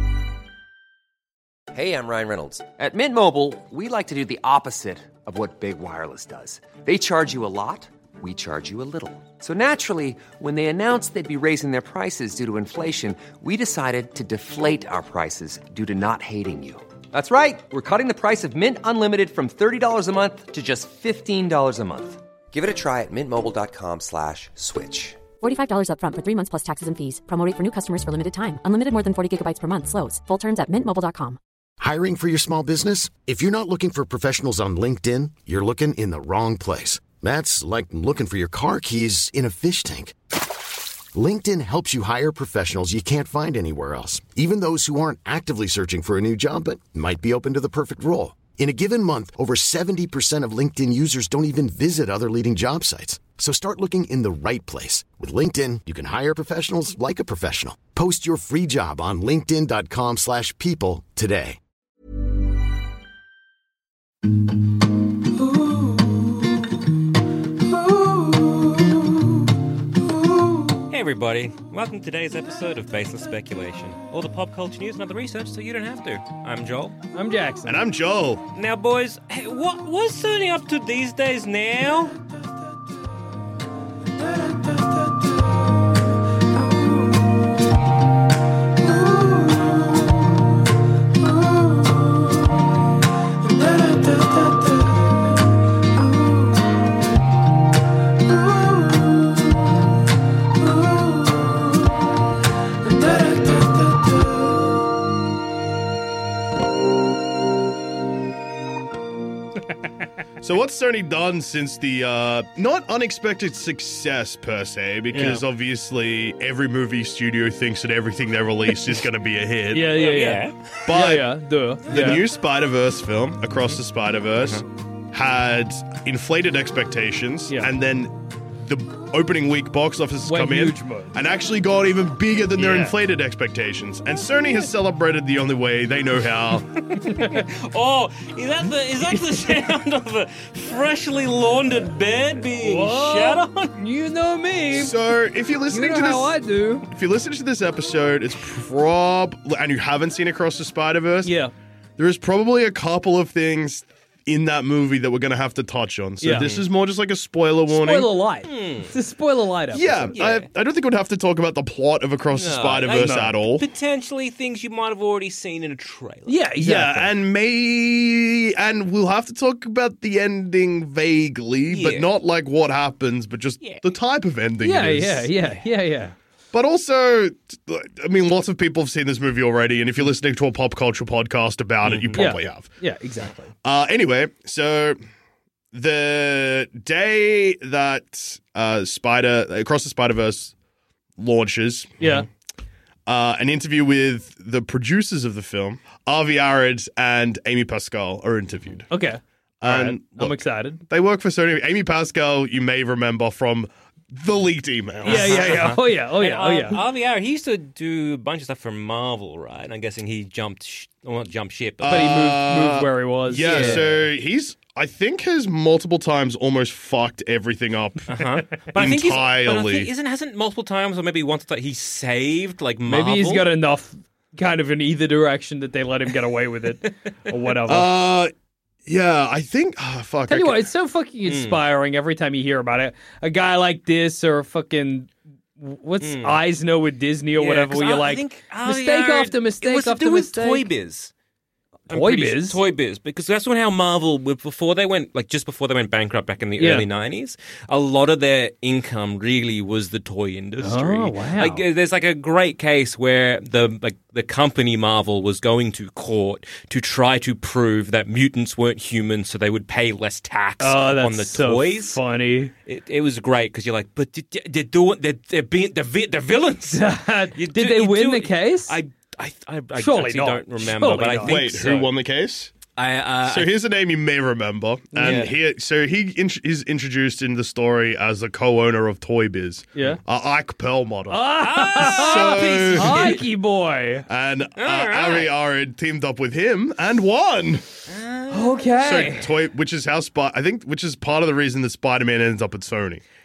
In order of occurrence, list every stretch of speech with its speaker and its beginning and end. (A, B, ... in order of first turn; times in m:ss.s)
0:01.7-0:25.2 A
0:25.4-0:31.4 B
0:31.8-0:40.2 C
0:41.1-1:01.6 C
1:10.9-1:17.0 D
1:17.1-1:17.8 E
1:17.6-1:18.4 F
1:18.5-1:22.2 D
1:50.4-2:00.0 F
1:55.1-1:55.4 E
1:59.7-2:02.2 E
2:00.0-2:00.8 D
2:00.8-2:01.3 F
2:01.9-2:16.8 F
2:04.4-2:04.6 D
2:10.2-2:11.2 E
2:12.6-2:12.9 D
2:16.8-2:23.7 D
2:17.1-2:17.4 E
2:22.6-2:25.0 E
2:24.7-2:26.4 F
2:25.7-2:26.9 E
2:26.9-2:31.3 F
2:31.2-2:31.5 E
2:32.0-2:38.1 F
2:36.2-2:36.5 E
2:36.3-2:36.6 D
2:37.7-2:40.2 E
2:38.4-2:38.9 D
2:39.7-2:43.6 F
2:40.1-2:40.5 D
2:42.3-2:46.4 D
2:42.9-2:43.3 E
2:46.3-2:47.1 E
2:46.6-2:55.3 F
2:51.7-2:52.1 D
2:53.6-2:53.9 D
2:54.6-2:56.1 E
2:56.5-3:02.7 F
3:01.8-3:02.3 D
3:02.1-3:03.5 E
3:03.6-3:05.0 F
3:05.7-3:10.5 F
3:11.2-3:12.2 F
3:12.0-3:12.3 E
3:13.1-3:18.9 F
3:18.9-3:20.8 E
3:19.6-3:25.7 F
3:25.0-3:32.2 D
3:25.0-3:26.8 E
3:31.8-3:38.2 F
3:31.8-3:33.9 E
3:33.4-3:34.0 D
3:38.1-3:43.4 D
3:38.7-3:39.9 F
3:42.8-3:47.9 E
3:47.6-3:48.3 F
3:48.8-3:50.6 F
3:50.3-4:00.6 E
3:51.2-3:51.6 D
3:56.0-3:56.4 D
3:57.4-4:01.1 D
4:01.9-4:22.0 D
4:01.9-4:02.6 E
4:06.6-4:06.9 E
4:10.6-4:11.6 E
4:20.6-4:22.5 E
4:22.6-4:31.9 D
4:26.7-4:28.7 E
4:29.7-4:31.4 E
4:31.2-4:32.6 F
4:32.7-4:33.5 D
4:33.2-4:43.2 F
4:34.9-4:35.3 E
4:35.0-4:35.3 D
4:39.7-4:40.0 E
4:41.1-4:44.0 E
4:41.4-4:43.2 D
4:44.1-4:47.6 F
4:44.6-4:45.3 D
4:47.9-4:49.1 D
4:48.3-4:49.2 E
4:48.8-4:53.0 F